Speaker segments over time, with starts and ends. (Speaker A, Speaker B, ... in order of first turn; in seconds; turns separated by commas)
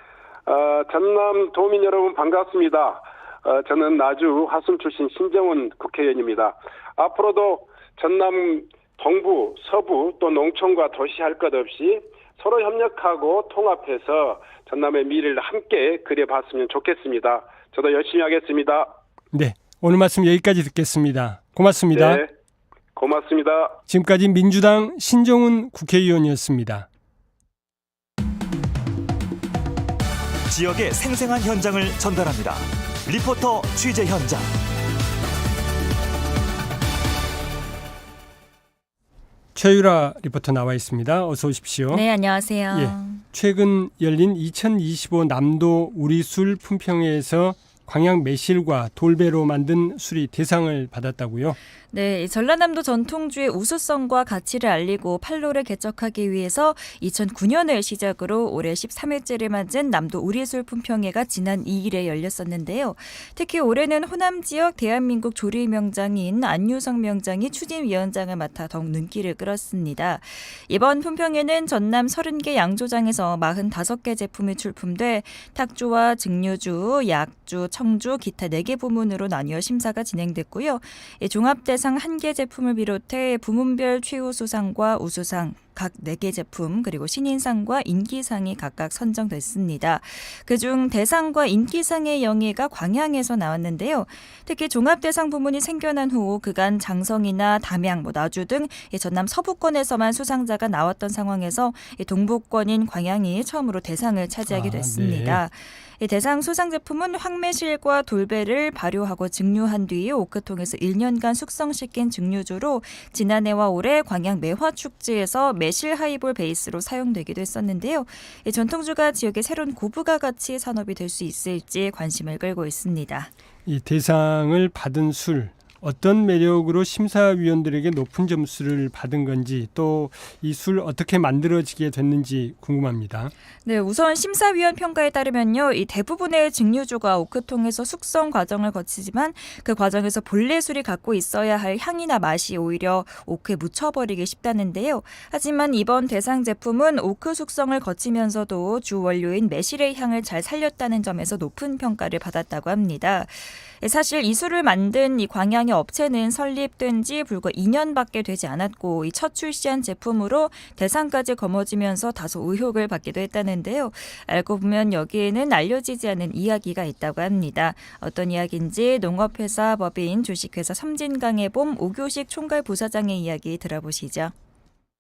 Speaker A: 0.5-18.9, Speaker B: 19.3-22.2, Speaker A: 21.9-22.3, Speaker A: 23.0-23.8, Speaker B: 23.9-26.9, Speaker C: 30.5-34.6, Speaker B: 39.5-42.0, Speaker D: 41.9-43.2, Speaker B: 42.7-51.6, Speaker D: 51.9-123.3, Speaker B: 104.5-105.4, Speaker B: 123.7-133.3, Speaker D: 133.6-174.3